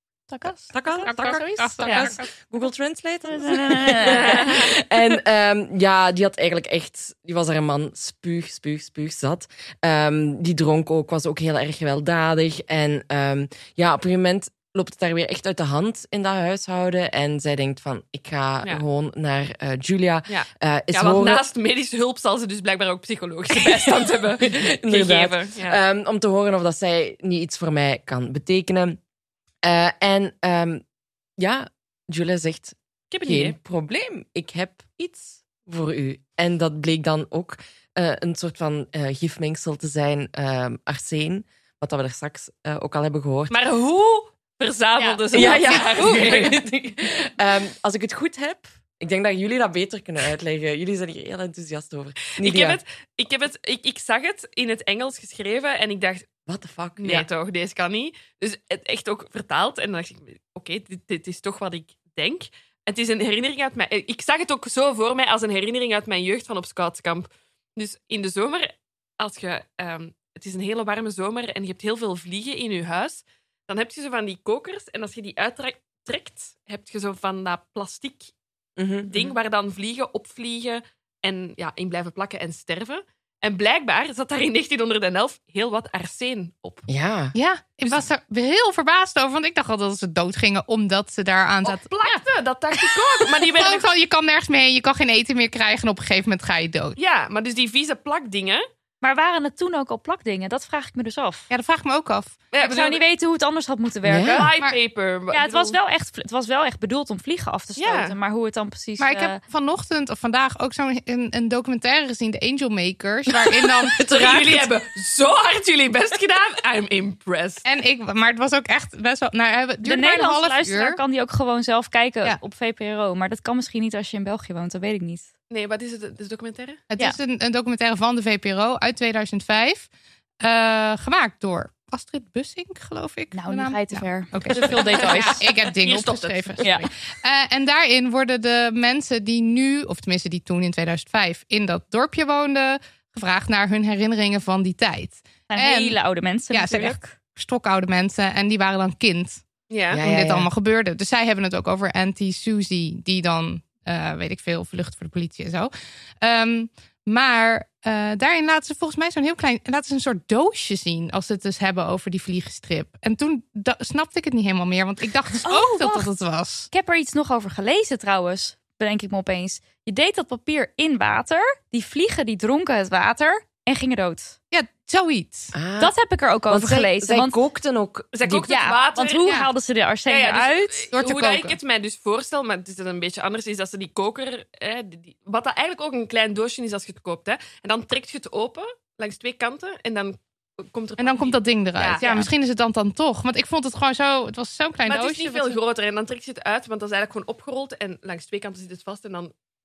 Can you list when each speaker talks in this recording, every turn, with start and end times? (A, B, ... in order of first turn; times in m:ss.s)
0:00.3-0:02.2 A
0:00.7-0:21.4 B
0:01.8-0:02.1 C
0:03.3-0:04.6 C
0:04.1-0:04.6 D
0:20.3-0:25.8 D
0:23.5-0:29.0 B
0:29.6-0:30.8 B
0:31.4-0:43.5 B
0:33.1-0:33.6 D
0:43.5-0:46.6 D
0:45.0-0:45.6 C
0:45.3-0:52.8 B
0:52.4-0:56.3 D
0:56.4-0:57.3 B
0:57.0-1:18.3 D
1:18.8-1:19.3 B
1:19.0-1:26.8 D
1:26.9-1:27.3 B
1:27.3-1:32.2 A
1:31.6-1:33.9 D
1:33.5-1:37.0 A
1:37.0-1:38.6 D
1:39.0-1:41.5 C
1:41.5-1:42.3 A
1:42.5-1:43.0 D
1:42.6-1:44.5 C
1:44.0-1:44.5 B
1:44.3-1:45.8 D
1:45.3-1:49.4 C
1:47.8-1:48.2 D
1:49.0-1:54.0 A
1:54.0-1:54.7 B
1:54.0-1:57.6 D
1:57.6-2:01.0 A
1:59.8-2:05.3 C
2:05.5-2:06.8 D
2:06.9-2:09.9 A
2:10.4-2:26.0 A
2:13.3-2:15.4 C
2:14.5-2:16.9 D
2:16.6-2:16.9 C
2:25.5-2:27.1 C
2:26.5-2:29.4 A
2:29.7-2:30.0 D
2:29.9-2:30.5 B
2:30.0-2:46.7 A
2:45.4-2:46.1 C
2:46.7-2:54.4 C
2:54.5-2:55.5 A
2:55.5-2:55.9 B
2:55.8-2:57.4 C
2:56.5-2:58.5 B
2:58.1-2:59.4 D
2:58.5-3:01.0 C
2:59.2-2:59.5 A
3:00.1-3:12.2 D
3:00.9-3:01.6 A
3:11.0-3:15.6 A
3:12.0-3:12.3 C
3:14.9-3:19.3 D